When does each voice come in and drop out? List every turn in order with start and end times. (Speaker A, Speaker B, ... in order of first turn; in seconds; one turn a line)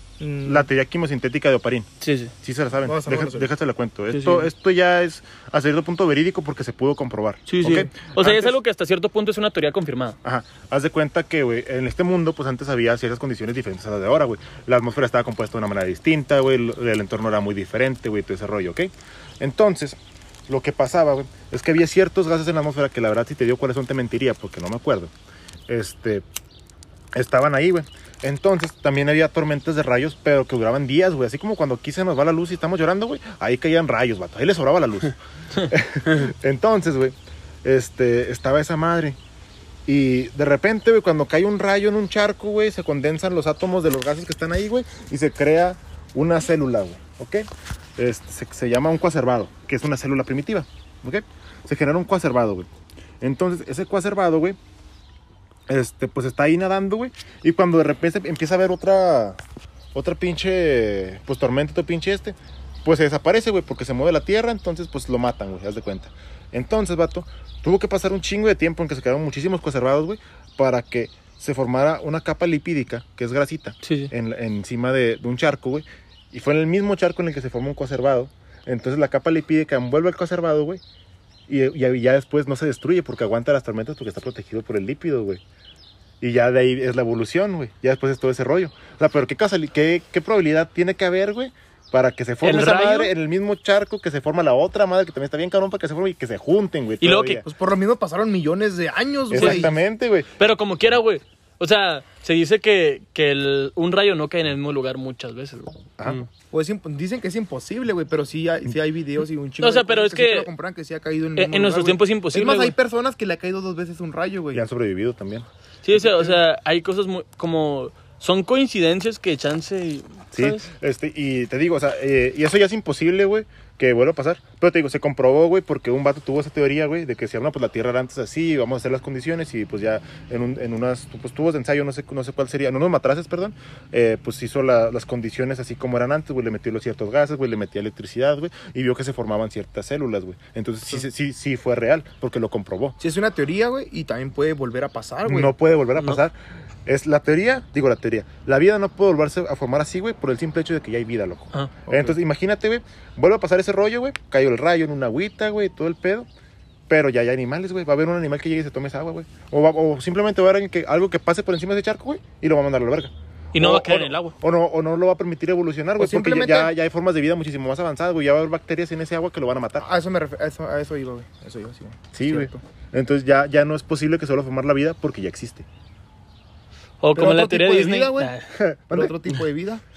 Speaker A: 0.2-0.7
Speaker B: 0.4-1.9
Speaker C: 2.0-2.3
Speaker B: 2.4-8.5
Speaker A: 2.8-3.5
Speaker C: 4.1-4.5
Speaker C: 7.5-10.2
Speaker B: 10.2-25.1
Speaker B: 25.7-26.2
Speaker B: 27.1-39.2
Speaker B: 39.9-52.7
Speaker B: 53.2-54.6
Speaker B: 55.7-59.4
Speaker B: 59.9-80.8
Speaker C: 73.8-74.1
Speaker B: 81.5-85.4
Speaker B: 86.2-97.4
Speaker C: 92.4-93.1
Speaker C: 97.0-97.4
Speaker A: 97.4-99.7
Speaker B: 99.3-100.3
Speaker C: 99.3-99.7
Speaker C: 100.4-105.8
Speaker A: 106.5-114.6
Speaker C: 109.6-110.5
Speaker C: 111.4-112.7
Speaker B: 114.5-115.5
Speaker C: 115.8-120.7
Speaker A: 115.9-116.4
Speaker B: 120.3-142.9
Speaker A: 143.0-145.5
Speaker B: 145.2-156.3
Speaker A: 151.8-152.1
Speaker B: 156.9-169.8
Speaker C: 163.5-164.3
Speaker A: 166.0-166.7
Speaker A: 169.8-172.6
Speaker B: 172.1-175.7
Speaker C: 177.0-178.5
Speaker A: 177.1-178.3
Speaker B: 178.5-179.2
Speaker A: 178.9-179.8